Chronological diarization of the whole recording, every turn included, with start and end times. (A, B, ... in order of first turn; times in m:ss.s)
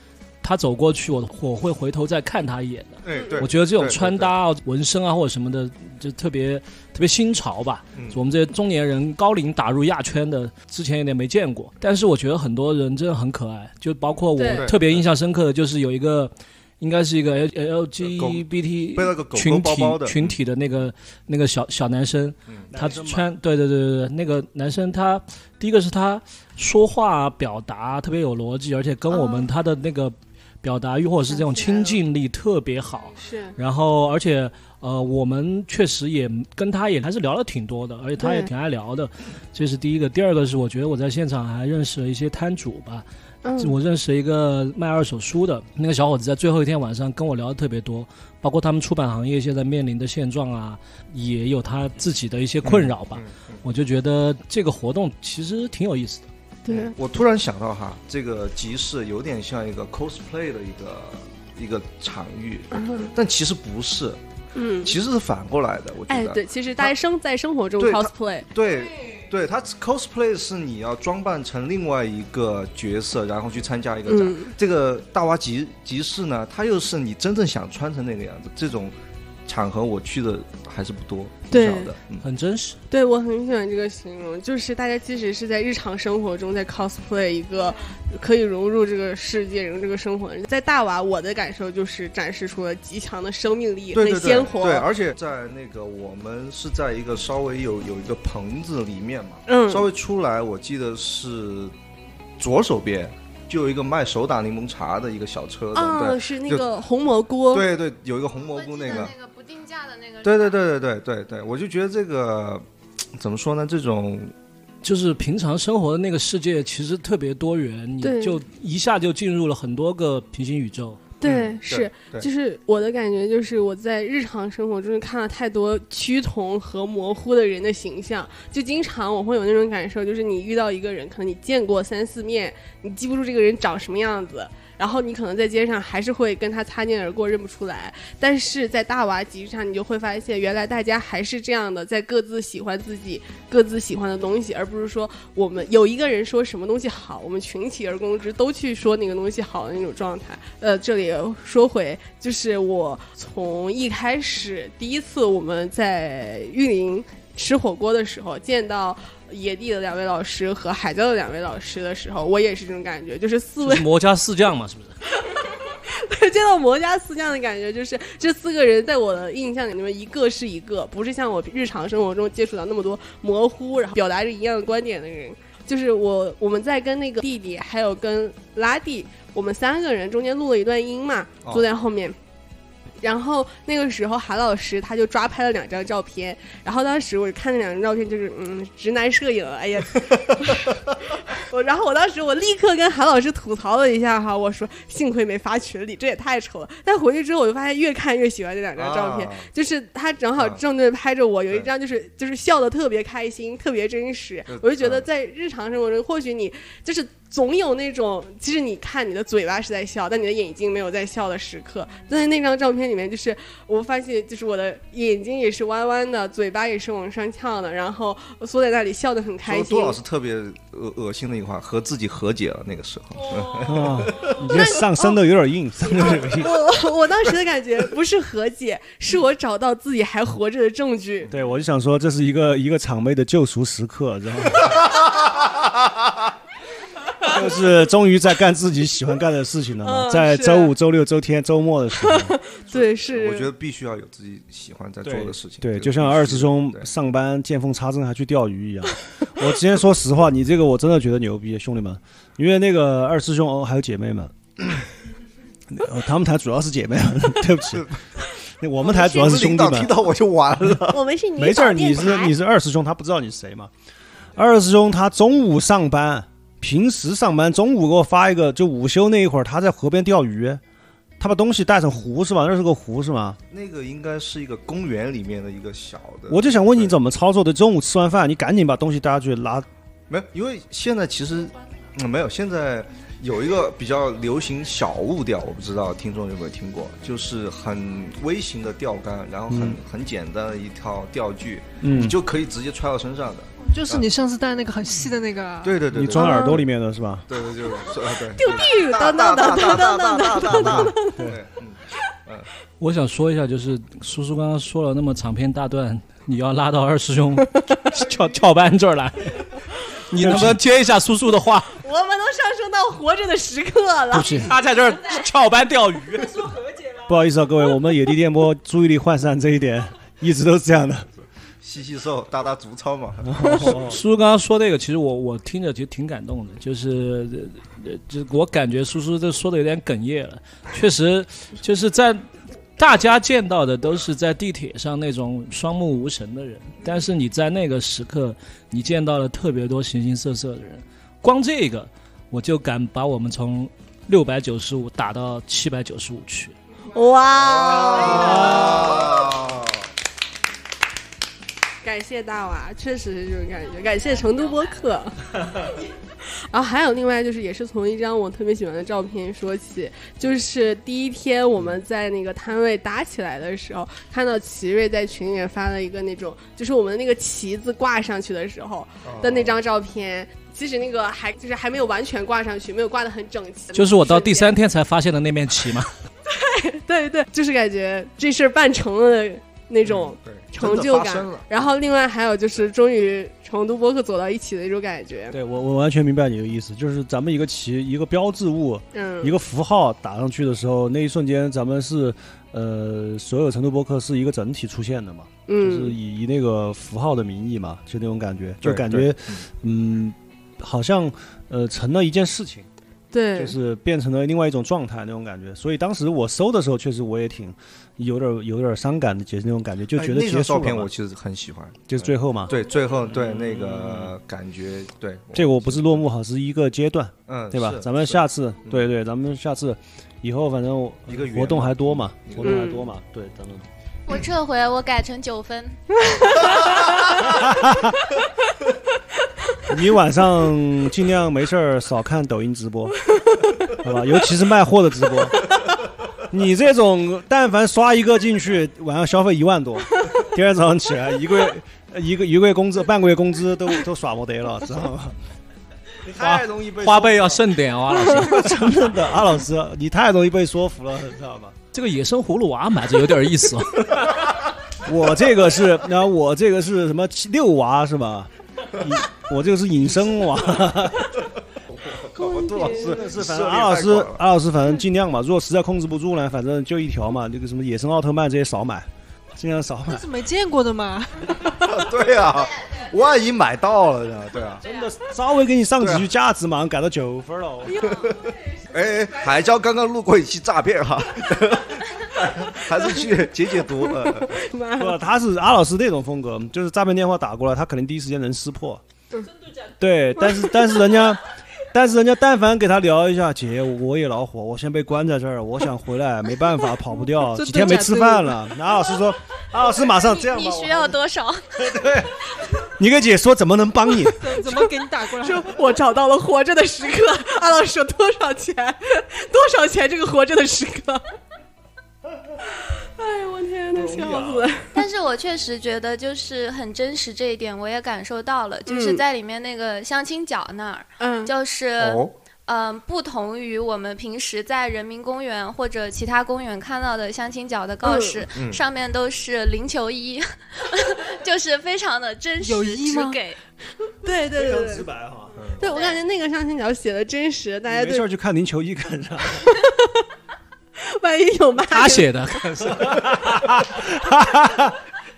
0:00.4-0:43.0 A
0:03.0-0:04.4 B
0:07.9-0:08.2 B
0:14.4-0:14.7 C
0:14.5-0:15.0 B
0:18.0-0:20.4 B
0:22.7-0:23.3 D
0:29.1-0:29.5 C
0:31.3-0:31.9 C
0:33.2-0:33.6 C
0:38.2-0:38.5 C
0:43.4-0:43.8 C
0:43.6-0:56.2 A
0:52.6-0:53.6 B
0:56.7-0:56.9 C
0:56.7-1:04.2 B
1:02.7-1:03.1 C
1:04.6-1:05.0 C
1:04.8-1:06.9 B
1:06.1-1:08.5 C
1:07.8-1:22.2 B
1:14.1-1:14.5 C
1:21.5-1:21.9 C
1:22.2-1:22.8 A
1:22.9-1:34.9 C
1:33.9-1:41.8 B
1:39.5-1:39.9 C
1:42.4-1:46.7 B
1:45.7-1:47.7 C
1:47.5-1:49.1 B
1:48.4-1:50.6 E
1:50.2-1:52.7 B
1:53.2-1:54.3 B
1:54.8-2:01.0 A
1:58.0-1:58.4 C
2:01.2-2:43.9 C
2:01.2-2:02.3 B
2:43.6-2:45.0 A
2:45.2-3:02.2 C
3:03.0-3:10.7 C
3:11.3-3:40.0 C
3:18.8-3:19.5 B
3:24.5-3:25.1 B
3:39.4-3:44.4 B
3:43.6-3:46.5 D
3:44.4-3:45.2 C
3:46.4-3:51.3 C
3:51.3-3:54.8 D
3:57.2-4:02.4 D
3:59.8-4:00.8 C
4:02.0-4:03.5 C
4:02.7-4:06.9 B
4:05.0-4:14.8 D
4:15.7-4:17.9 D
4:18.6-4:20.0 D
4:18.8-4:19.3 C
4:19.1-4:21.0 B
4:20.9-4:22.3 C
4:21.4-4:23.7 D
4:24.4-4:30.6 D
4:31.2-4:33.4 D
4:33.5-4:37.0 B
4:36.3-4:39.7 D
4:40.1-4:54.1 B
4:49.5-4:49.8 D
4:51.8-4:52.2 D
4:53.6-4:55.8 F
4:55.6-4:56.6 B
4:55.9-4:57.3 D
4:56.1-4:56.6 C
4:57.3-5:02.5 B
4:58.4-5:01.3 C
5:02.8-5:09.5 A
5:10.1-5:11.7 A
5:10.2-5:10.6 D
5:11.8-5:14.5 C
5:14.1-5:16.5 A
5:16.2-5:17.1 F
5:17.1-5:21.1 D
5:21.6-5:23.4 B
5:23.2-5:24.0 D
5:23.6-5:46.5 A
5:46.9-5:49.3 C
5:47.4-5:49.8 B
5:51.8-5:55.7 C
5:56.2-6:14.6 C
6:09.0-6:09.6 B
6:13.7-6:15.9 A
6:16.3-6:25.4 C
6:19.8-6:21.5 B
6:25.3-6:42.7 D
6:28.9-6:29.4 C
6:35.5-6:36.0 C
6:38.6-6:39.4 B
6:43.1-6:43.6 C
6:43.4-6:50.9 D
6:50.0-6:56.1 B
6:51.9-6:52.5 D
6:53.6-6:54.1 D
6:55.3-7:03.7 D
6:57.3-6:58.9 B
7:01.1-7:02.6 B
7:02.4-7:02.9 C
7:04.1-7:05.8 E
7:06.1-7:06.8 C
7:07.3-7:08.0 D
7:09.7-7:13.0 D
7:13.8-7:15.4 D
7:16.3-7:25.1 D
7:26.1-7:27.6 B
7:26.2-7:28.9 A
7:28.0-7:31.6 D
7:31.7-7:34.1 A
7:34.8-7:41.2 D
7:41.7-7:44.2 B
7:42.1-7:43.1 C
7:42.8-7:50.0 D
7:49.9-7:51.4 F
7:51.6-7:54.7 B
7:54.6-7:57.9 D
7:55.8-7:56.1 B
7:57.9-8:04.3 B
8:02.6-8:05.0 C
8:04.8-8:08.8 D
8:09.8-8:21.0 D
8:17.2-8:18.4 F
8:20.0-8:21.6 E
8:21.6-8:24.4 D
8:24.2-8:25.6 F
8:25.2-8:31.0 C
8:32.5-8:34.7 C
8:33.8-8:34.4 D
8:33.9-8:34.4 B
8:34.7-8:53.4 E
8:38.7-8:39.0 C
8:41.0-8:41.3 C
8:41.8-8:42.1 B
8:47.8-8:48.3 C
8:48.3-8:48.6 B
8:52.4-8:53.2 F
8:54.0-8:54.9 C
8:54.2-8:55.3 D
8:55.4-8:55.6 B
8:55.6-8:58.0 C
8:55.6-8:56.0 E
8:57.7-8:59.5 D
8:59.4-8:59.8 C
9:00.8-9:02.4 C
9:01.7-9:03.4 A
9:02.7-9:04.8 D